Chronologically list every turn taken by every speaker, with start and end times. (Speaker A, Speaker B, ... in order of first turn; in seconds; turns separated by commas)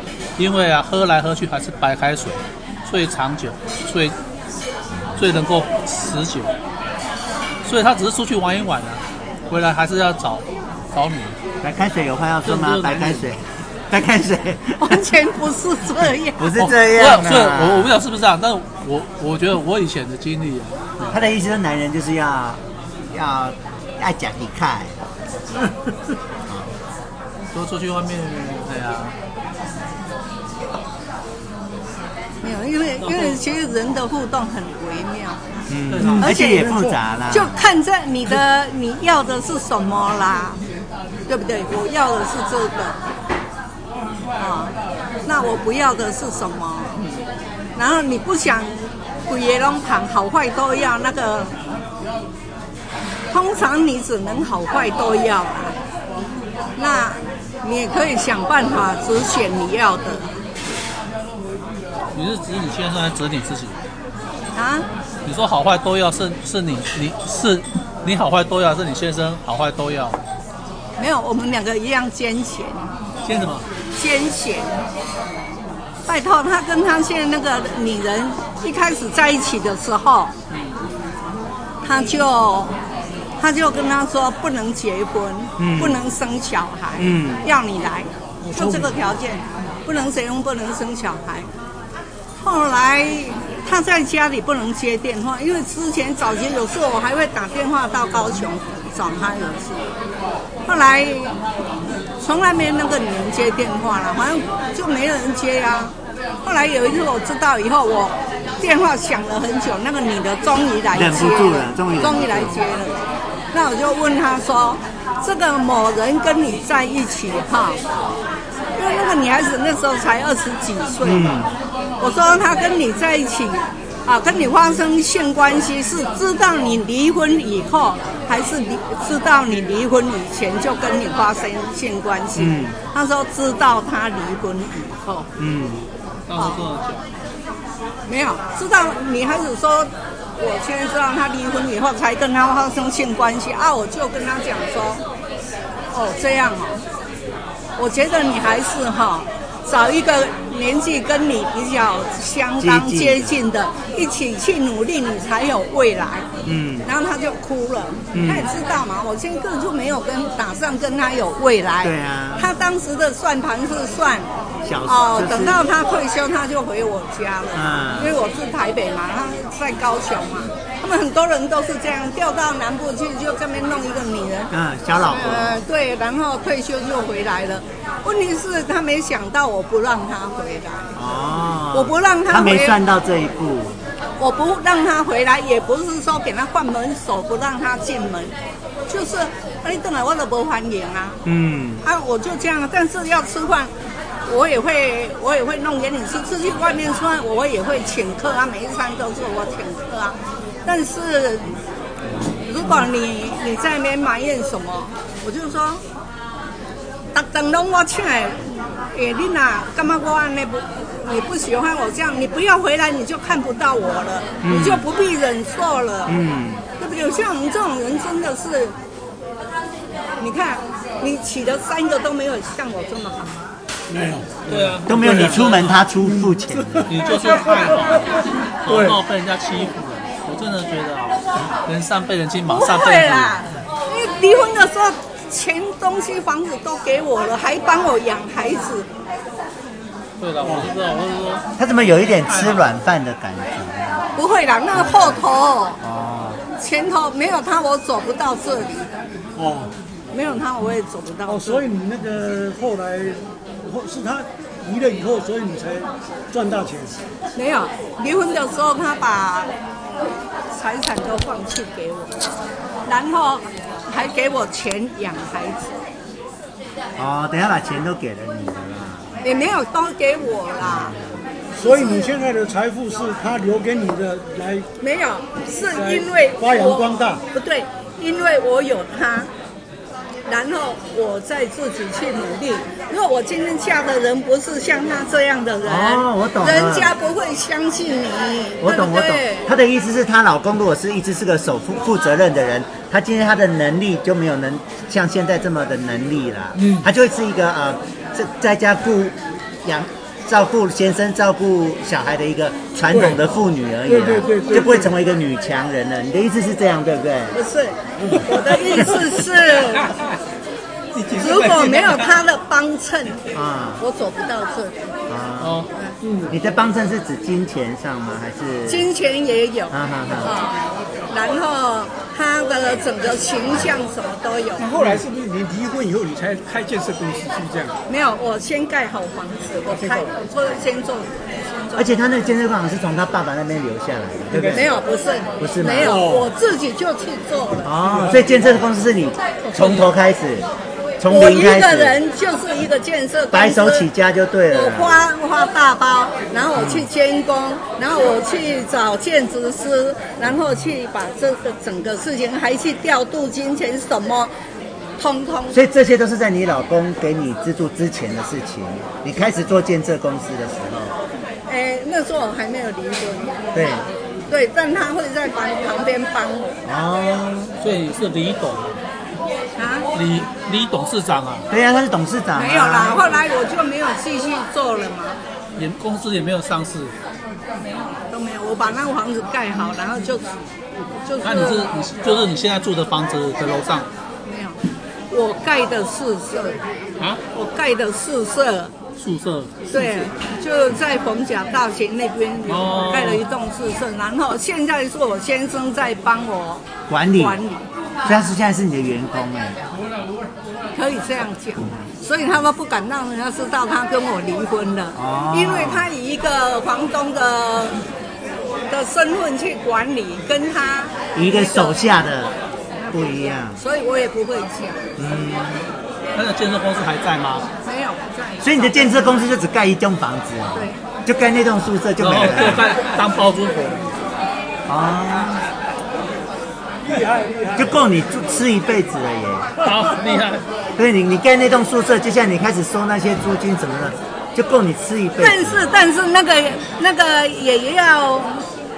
Speaker A: 0.4-4.2, Speaker A: 5.2-6.5, Speaker A: 7.6-11.3, Speaker B: 11.6-15.0, Speaker A: 12.4-13.3, Speaker C: 14.8-16.4, Speaker B: 16.4-17.9, Speaker A: 16.6-21.2, Speaker B: 21.1-25.0, Speaker B: 26.5-26.7, Speaker A: 27.5-29.1, Speaker C: 32.4-35.4, Speaker A: 33.0-33.4, Speaker B: 35.7-37.5, Speaker A: 35.9-36.3, Speaker D: 36.0-37.0, Speaker C: 36.2-36.7, Speaker C: 37.3-40.6, Speaker C: 41.3-43.0, Speaker C: 44.4-44.8, Speaker C: 45.3-47.0, Speaker C: 47.8-51.6, Speaker C: 53.3-55.8, Speaker C: 56.8-60.3, Speaker A: 62.1-63.8, Speaker C: 64.5-64.9, Speaker A: 65.2-70.2, Speaker C: 71.0-72.9, Speaker A: 73.2-73.7, Speaker C: 74.0-74.7, Speaker C: 76.1-80.3, Speaker A: 80.5-80.8, Speaker C: 81.8-82.8, Speaker C: 83.4-91.5, Speaker B: 85.6-86.0, Speaker B: 87.0-87.5, Speaker D: 88.4-89.0, Speaker C: 92.4-99.9, Speaker C: 100.7-101.4, Speaker C: 102.2-113.0, Speaker B: 110.9-112.6, Speaker C: 113.5-117.8, Speaker C: 118.8-121.3, Speaker B: 121.0-121.5, Speaker C: 122.0-135.3, Speaker B: 132.4-132.8, Speaker B: 135.4-135.8, Speaker A: 136.3-137.1, Speaker C: 136.3-136.6, Speaker C: 138.1-145.0, Speaker C: 145.9-146.8, Speaker C: 147.8-156.3, Speaker B: 152.6-153.4, Speaker B: 156.4-156.9, Speaker C: 156.8-164.3, Speaker B: 158.1-158.5, Speaker B: 161.8-162.5, Speaker B: 164.6-165.7, Speaker C: 164.8-174.5, Speaker B: 167.6-168.2, Speaker B: 174.5-175.6, Speaker C: 175.1-180.9, Speaker B: 180.9-183.8, Speaker C: 181.7-182.8, Speaker C: 184.2-188.3, Speaker C: 188.9-191.2, Speaker B: 191.2-191.8, Speaker C: 191.8-193.7, Speaker C: 194.3-201.5, Speaker C: 202.4-205.8, Speaker C: 207.1-216.2, Speaker B: 214.4-214.9, Speaker B: 216.1-216.7, Speaker C: 216.8-218.8, Speaker C: 220.2-223.4, Speaker D: 223.9-225.4, Speaker A: 224.5-225.9, Speaker B: 224.9-226.9, Speaker D: 226.0-229.0, Speaker A: 226.9-233.4, Speaker C: 227.2-227.5, Speaker C: 232.5-238.9, Speaker A: 240.2-241.5, Speaker D: 240.4-240.7, Speaker B: 241.6-244.0, Speaker A: 242.1-242.7, Speaker C: 244.2-245.8, Speaker B: 244.8-245.2, Speaker B: 245.8-246.4, Speaker C: 246.6-248.8, Speaker D: 249.4-249.7, Speaker C: 250.1-251.6, Speaker D: 251.3-257.0, Speaker C: 257.4-259.5, Speaker C: 260.5-262.1, Speaker C: 262.9-265.8, Speaker B: 267.0-269.1, Speaker C: 269.2-270.9, Speaker B: 270.6-271.1, Speaker D: 271.5-274.7, Speaker C: 271.6-272.1, Speaker C: 274.8-279.3, Speaker D: 275.7-277.2, Speaker C: 280.3-289.5, Speaker B: 285.6-286.9, Speaker B: 288.6-307.4, Speaker D: 296.6-296.9, Speaker D: 303.9-304.9, Speaker C: 307.3-309.9, Speaker D: 308.0-308.4, Speaker E: 309.6-310.2, Speaker E: 310.9-312.2, Speaker C: 311.2-313.2, Speaker B: 313.3-313.8, Speaker C: 313.8-314.8, Speaker B: 315.1-315.7, Speaker A: 315.4-315.7, Speaker D: 316.0-316.3, Speaker B: 316.3-318.9, Speaker C: 318.7-324.7, Speaker B: 319.7-320.4, Speaker E: 324.6-327.7, Speaker C: 327.9-332.0, Speaker E: 329.7-330.1, Speaker B: 331.8-334.7, Speaker E: 334.3-334.7, Speaker C: 334.5-337.7, Speaker B: 335.4-336.1, Speaker D: 335.9-336.3, Speaker B: 337.6-340.5, Speaker C: 339.4-339.9, Speaker B: 341.0-342.0, Speaker C: 341.1-343.9, Speaker B: 343.3-345.1, Speaker C: 344.5-354.3, Speaker B: 346.6-346.9, Speaker C: 355.0-355.6, Speaker B: 355.5-361.0, Speaker C: 361.5-363.4, Speaker B: 363.5-363.9, Speaker C: 364.3-366.6, Speaker B: 366.6-367.6, Speaker A: 367.6-368.8, Speaker C: 369.6-369.9, Speaker A: 369.9-371.5, Speaker B: 371.5-373.2, Speaker C: 372.4-375.2, Speaker A: 375.6-376.9, Speaker C: 378.1-380.3, Speaker C: 381.0-381.7, Speaker A: 381.2-383.9, Speaker C: 384.2-384.6, Speaker C: 385.1-386.6, Speaker C: 387.3-388.7, Speaker A: 389.0-390.0, Speaker C: 389.7-397.6, Speaker A: 392.5-393.2, Speaker B: 396.9-397.4, Speaker B: 398.0-399.6, Speaker C: 400.7-407.8, Speaker B: 404.9-405.9, Speaker C: 408.7-411.8, Speaker B: 411.1-412.4, Speaker C: 412.8-414.9, Speaker B: 412.9-413.6, Speaker B: 415.0-415.7, Speaker A: 416.1-417.5, Speaker C: 417.6-419.2, Speaker B: 418.4-422.8, Speaker C: 420.5-420.8, Speaker A: 422.0-423.9, Speaker B: 424.7-425.4, Speaker D: 426.8-427.8, Speaker B: 427.6-429.5, Speaker A: 429.6-430.4, Speaker B: 430.8-435.7, Speaker C: 435.2-438.5